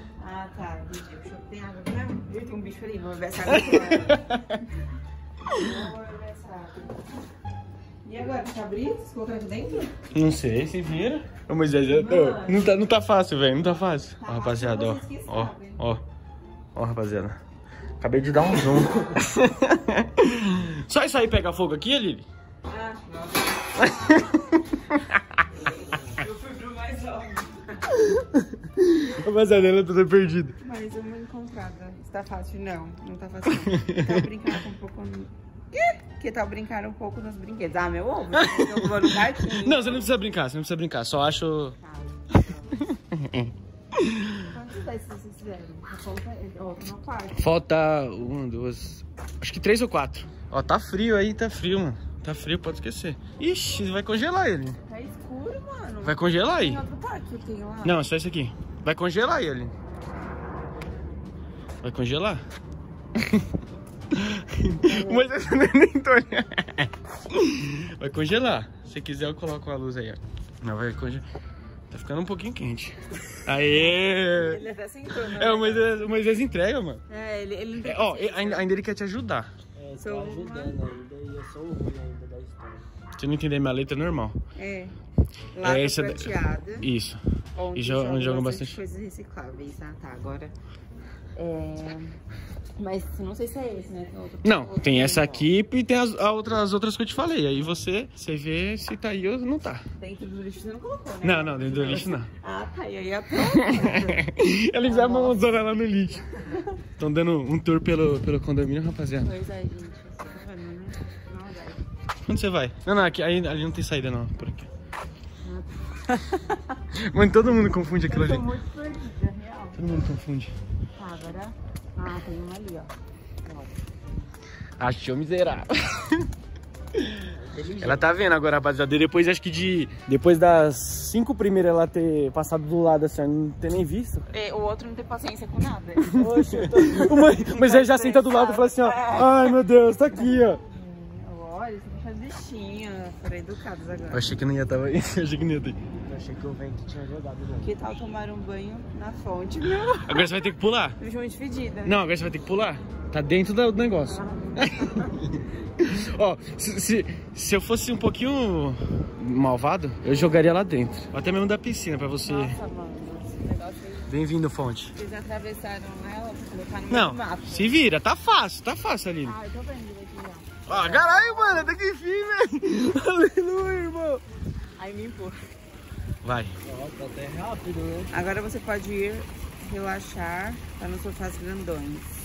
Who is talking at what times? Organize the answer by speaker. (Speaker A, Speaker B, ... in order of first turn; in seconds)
Speaker A: 0.2-4.3, 5.5-7.0, 8.0-9.9, 11.9-12.7, 14.2-15.8, 22.7-24.7, 25.8-27.9, 30.6-40.2, 41.8-42.9, 44.4-47.5, 54.9-58.0, 64.8-65.3, 74.3-75.9, 77.1-78.7, 80.0-80.8, 84.5-84.9, 85.5-86.9, 87.5-90.5, 91.3-92.2, 92.8-95.5, 100.0-105.7, 106.3-106.8, 109.2-111.8, 115.4-116.5, 118.0-119.8, 121.0-122.9, 134.3-136.3, 136.9-139.6, 140.1-144.3, 147.6-150.3, 151.0-152.0, 154.1-155.3, 162.2-164.1, 164.9-167.8, 169.2-171.8, 174.8-175.4, 178.1-182.1
Speaker B: 3.5-4.6, 10.1-16.0, 16.7-17.4, 18.0-22.2, 23.8-25.4, 27.9-30.5, 33.5-34.2, 38.3-41.8, 42.7-44.5, 47.3-54.8, 56.0-56.8, 57.8-59.7, 61.8-62.4, 63.1-63.4, 64.1-71.2, 71.9-77.0, 77.8-79.5, 83.2-84.4, 85.6-87.2, 87.7-88.8, 94.4-99.8, 101.2-102.3, 103.4-106.3, 106.9-109.3, 112.2-114.7, 116.9-118.5, 119.8-120.5, 124.8-126.3, 127.8-134.3, 136.0-140.6, 144.1-145.8, 149.9-151.0, 151.8-162.6, 164.1-164.9, 166.9-169.4, 170.7-174.2, 176.2-176.5
Speaker C: 79.8-82.9, 123.5-123.7, 127.2-128.1, 136.2-137.2, 146.0-147.7, 176.6-178.1